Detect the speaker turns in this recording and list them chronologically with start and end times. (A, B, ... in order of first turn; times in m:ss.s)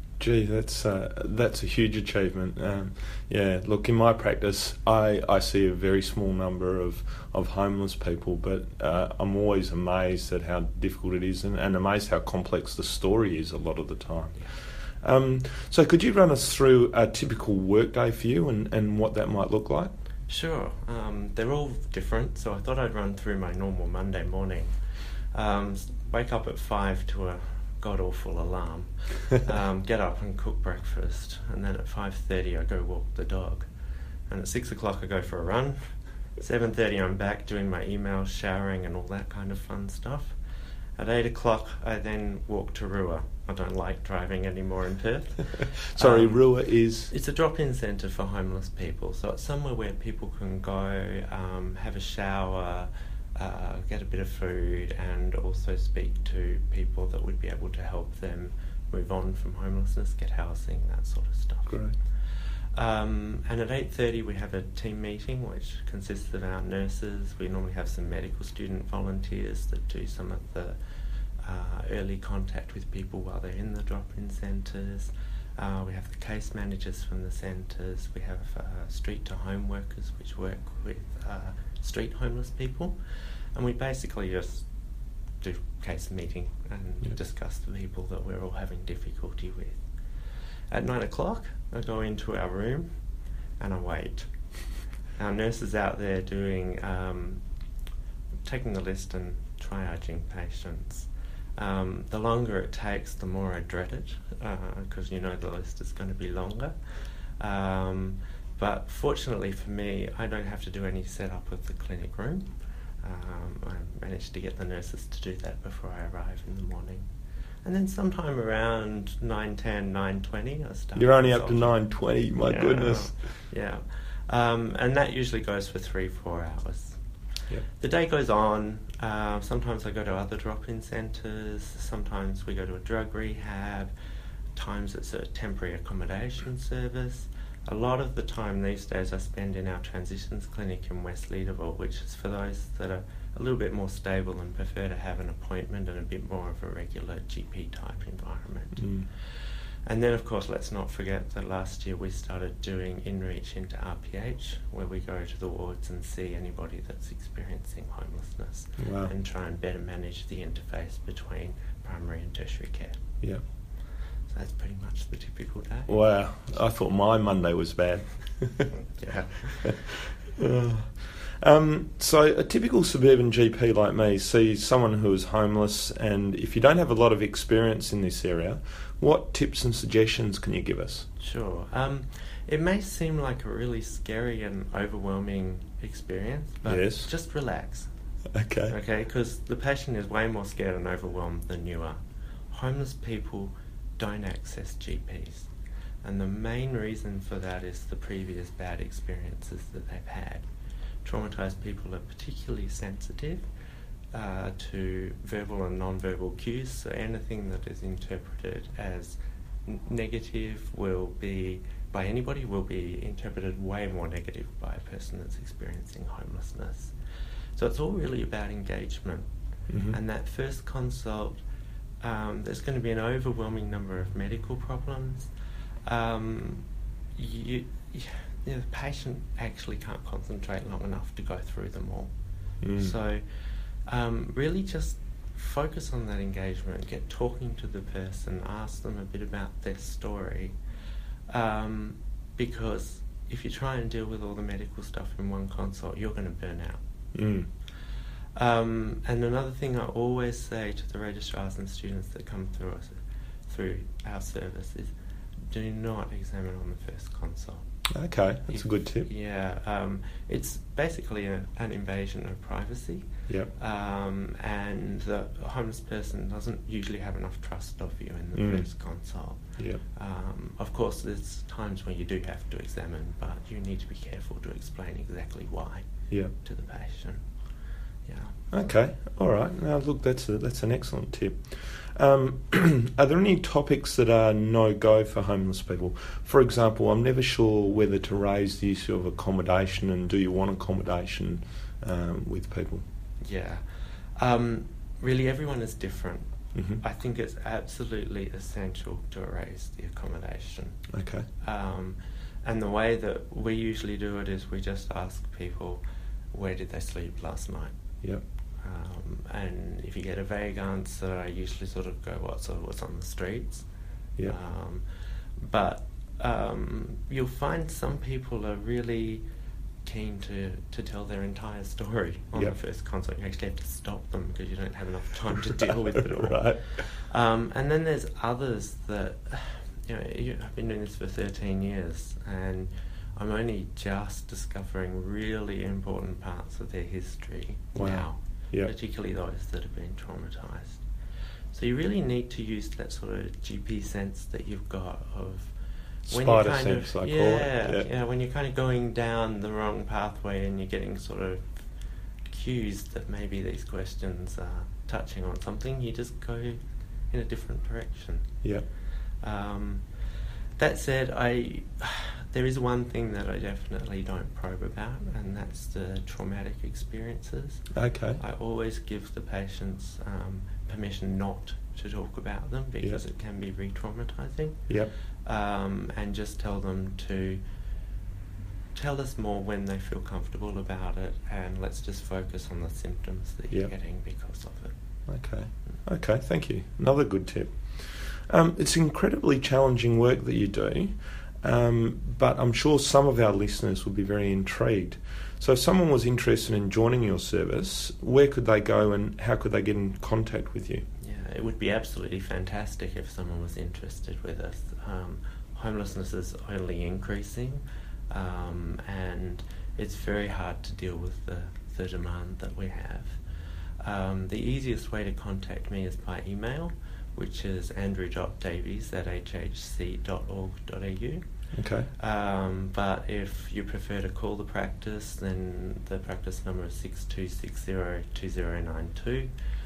0:00.2-0:14.4 A
0:15.0-0:19.9 A
0:20.3-0:24.8 B
0:25.3-0:33.7 B
0:34.3-0:40.4 B
0:41.0-1:10.8 B
0:46.0-0:47.1 A
1:01.7-1:01.9 A
1:11.4-1:24.7 B
1:25.4-1:29.8 B
1:30.7-1:32.9 B
1:33.6-1:37.4 B
1:38.4-1:57.1 B
1:57.6-2:01.8 B
2:01.0-2:03.1 A
2:02.4-2:07.0 B
2:07.6-2:13.9 B
2:14.5-2:43.0 B
2:28.8-2:29.0 A
2:38.8-2:39.1 A
2:44.3-2:45.9 B
2:45.9-2:48.7 A
2:48.9-2:49.8 B
2:50.4-3:01.1 A
3:01.2-3:07.9 B
3:06.6-3:07.1 A
3:08.3-3:08.7 A
3:08.7-3:15.5 B
3:16.0-3:20.5 B
3:21.0-3:23.4 B
3:24.1-3:36.9 B
3:37.6-3:39.3 B
3:39.7-3:40.0 A
3:39.9-3:41.4 B
3:42.0-3:45.3 B
3:45.8-3:52.1 B
3:52.6-3:52.9 A
3:52.7-3:53.2 B
3:53.8-4:00.6 B
4:01.3-4:06.8 B
4:07.1-4:07.5 A
4:08.4-4:14.9 B
4:15.5-4:17.6 B
4:17.9-4:19.1 A
4:18.5-4:37.2 B
4:28.3-4:28.7 A
4:38.0-4:38.5 B
4:38.5-4:52.8 A
4:53.2-5:00.8 B
4:56.5-4:56.8 A
5:00.9-5:01.2 A
5:01.4-5:07.8 B
5:08.6-5:13.6 B
5:14.2-5:19.2 B
5:19.8-5:40.8 B
5:25.9-5:26.7 A
5:37.7-5:38.7 A
5:41.5-5:45.5 B
5:46.1-5:47.9 A
5:46.1-5:51.6 B
5:52.3-5:56.6 B
5:57.1-5:58.3 B
5:59.2-5:59.8 B
6:00.6-6:07.6 B
6:07.7-6:08.2 A
6:08.2-6:17.4 B
6:18.7-6:24.7 B
6:25.1-6:40.8 A
6:41.0-6:53.2 B
6:53.8-7:01.3 B
7:01.5-7:01.9 A
7:02.0-7:09.3 B